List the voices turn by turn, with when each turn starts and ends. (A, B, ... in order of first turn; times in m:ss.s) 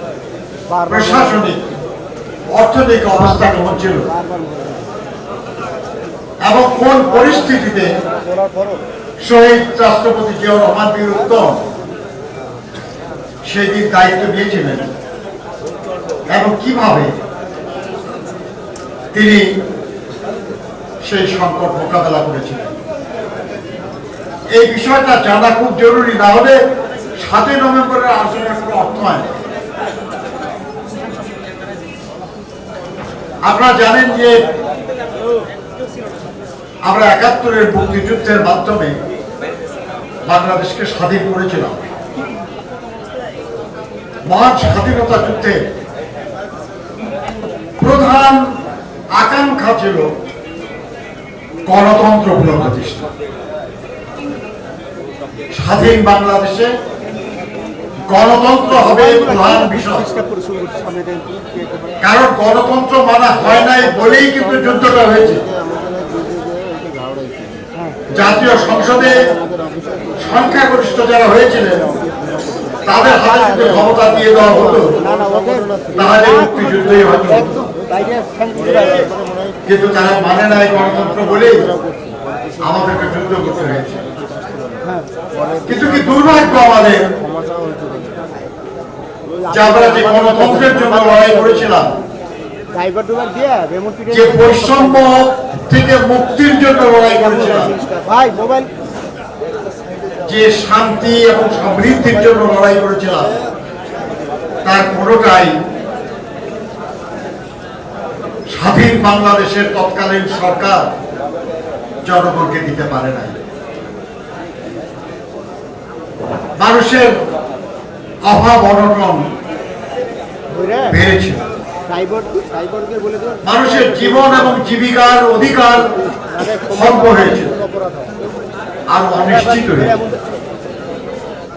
0:00.7-0:01.4 A
0:00.9-0:01.7 B
0:02.5-0:04.1 B
0:03.2-0:04.9 A
0:06.4-0:08.0 B
0:08.4-0:08.7 A
0:09.2-0:11.7 B
0:13.4-0:14.9 B
0:16.3-0:17.1 B
0:19.1-0:19.5 B
0:21.0-0:22.8 B
0:24.5-0:26.6 B
0:27.2-0:29.4 B
0:33.4-0:34.4 B
0:36.8-0:39.0 B
0:40.3-0:41.8 B
0:44.3-0:45.7 B
0:47.8-0:48.5 B
0:49.2-0:50.1 B
0:51.7-0:53.1 B
0:55.5-0:56.7 B
0:58.1-1:00.1 B
0:58.7-1:02.0 A
1:02.0-1:05.5 B
1:07.7-1:08.1 A
1:08.1-1:09.3 B
1:10.2-1:11.9 B
1:12.8-1:15.0 B
1:13.0-1:13.7 A
1:14.7-1:19.1 A
1:16.0-1:17.7 B
1:19.7-1:21.7 B
1:22.6-1:24.0 B
1:24.8-1:25.1 A
1:25.7-1:27.1 B
1:29.4-1:31.7 A
1:29.5-1:31.9 B
1:32.7-1:35.2 A
1:34.1-1:37.7 B
1:37.1-1:38.7 A
1:40.3-1:43.3 B
1:44.6-1:45.6 B
1:48.5-1:50.9 B
1:52.0-1:53.4 B
1:56.6-1:57.1 B
1:58.3-1:59.3 B
2:00.5-2:01.0 A
2:00.9-2:01.5 B
2:01.9-2:04.3 A
2:03.4-2:05.9 B
2:06.2-2:08.2 A
2:06.7-2:07.5 B
2:08.9-2:10.0 B
2:09.2-2:10.3 A